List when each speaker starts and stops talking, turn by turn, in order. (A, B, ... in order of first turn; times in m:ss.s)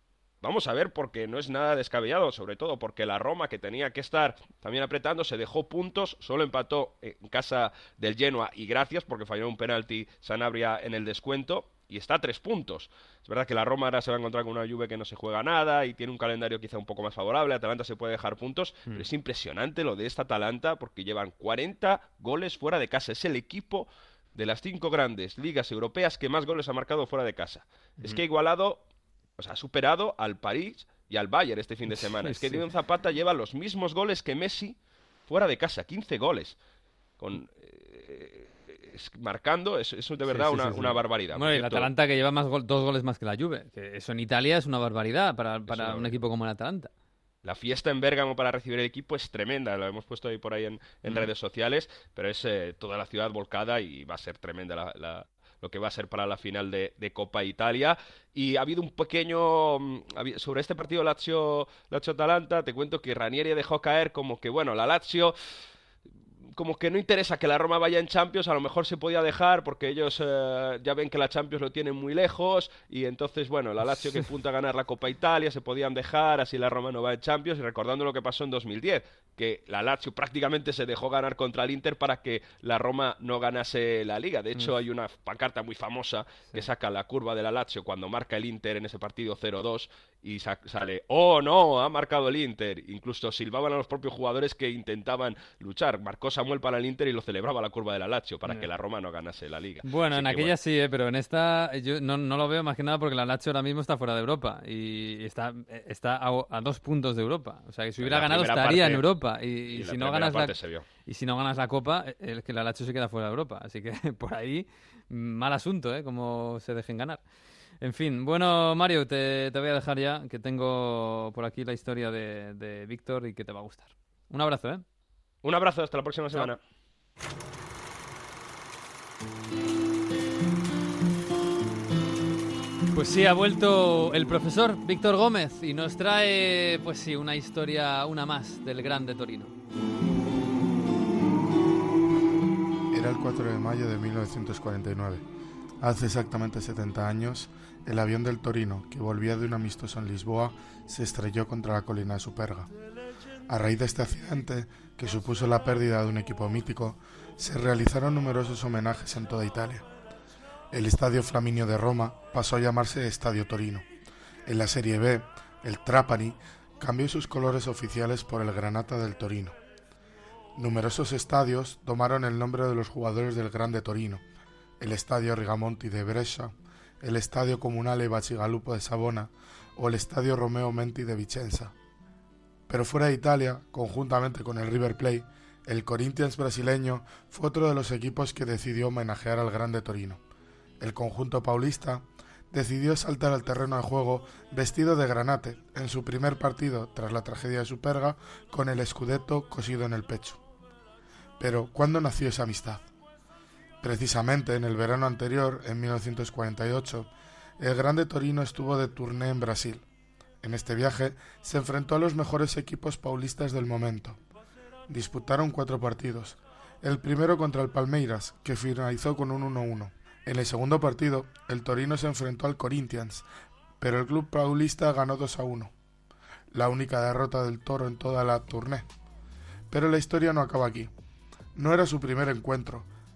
0:00.4-0:28.8 A
0:29.4-0:36.6 A
0:31.9-0:32.6 B
0:37.2-0:41.9 A
0:40.3-0:46.9 B
0:45.7-0:46.1 A
0:47.4-1:05.3 A
1:06.5-1:40.5 A
1:39.8-1:57.2 B
1:48.0-1:49.0 A
1:49.7-1:50.8 A
1:57.8-2:04.8 B
2:05.4-2:06.6 A
2:12.9-2:19.5 B
2:22.9-2:25.2 C
2:25.8-2:32.7 C
2:33.5-2:39.8 C
2:40.7-2:43.8 C
2:44.4-2:49.5 C
2:50.6-2:54.2 C
2:54.8-3:01.7 C
3:02.7-3:10.2 C
3:10.8-3:20.4 C
3:21.4-3:22.8 C
3:23.8-3:29.8 C
3:30.4-3:34.2 C
3:34.9-3:43.2 C
3:43.8-3:45.7 C
3:46.5-3:48.9 C
3:49.7-3:50.9 C
3:51.6-3:52.9 C